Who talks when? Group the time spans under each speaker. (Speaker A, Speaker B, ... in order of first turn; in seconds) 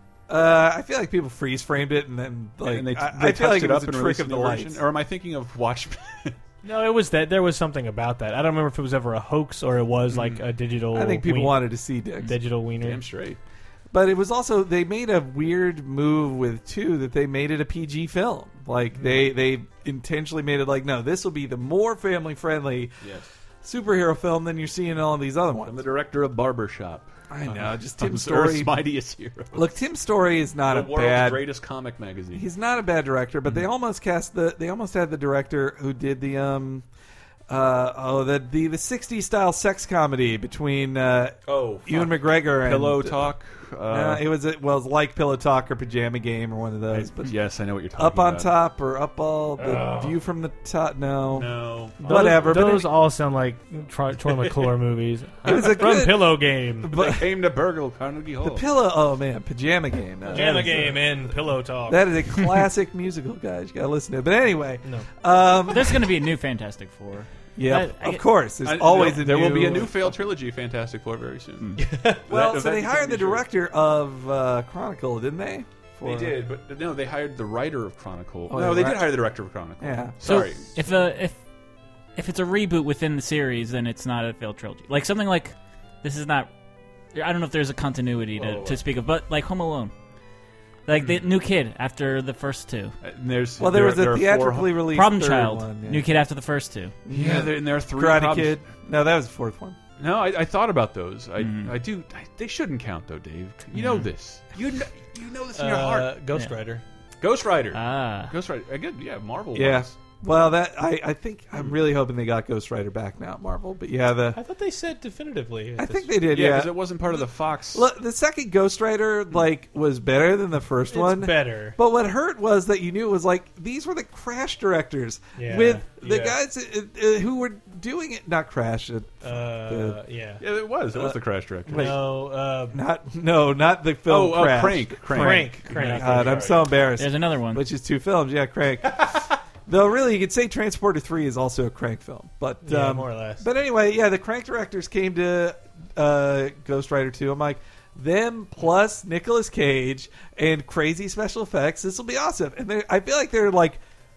Speaker A: 0.3-4.8, 10.9-12.3, 13.9-23.1, 23.6-25.8, 27.3-28.7, 29.5-31.5, 32.3-36.9, 37.5-43.3, 43.9-47.4, 48.0-52.9, 55.4-57.4, 58.4-61.1, 61.9-66.1, 67.6-70.2, 72.3-76.4, 78.5-79.3, 79.8-80.4, 93.6-96.1, 97.1-99.8, 109.5-114.4, 115.8-130.0, 130.9-132.1, 132.7-153.8
Speaker B: 2.6-6.4, 10.1-10.4, 12.8-13.4, 19.0-19.2, 23.0-23.3, 25.6-29.8, 30.7-32.5, 41.5-44.3, 46.9-48.5, 49.6-50.1, 51.3-52.6, 56.9-58.6, 60.3-60.7, 68.6-73.5, 76.0-80.8, 88.3-88.8, 93.0-94.9, 97.1-98.6, 100.0-106.2, 107.2-110.0, 116.3-117.9, 130.4-132.0, 134.1-136.6
Speaker C: 6.6-11.6, 12.2-13.0, 52.0-57.0, 60.3-62.1, 71.8-72.2, 105.5-106.8, 114.3-116.2, 120.9-121.8, 125.4-126.4, 129.2-130.4, 131.7-132.8, 135.1-136.6, 142.6-143.5
Speaker D: 65.7-68.2, 80.2-81.4, 82.2-86.5, 87.2-89.9, 90.9-93.0, 94.9-97.0, 101.4-101.8, 103.7-104.1, 107.7-108.3, 135.7-137.7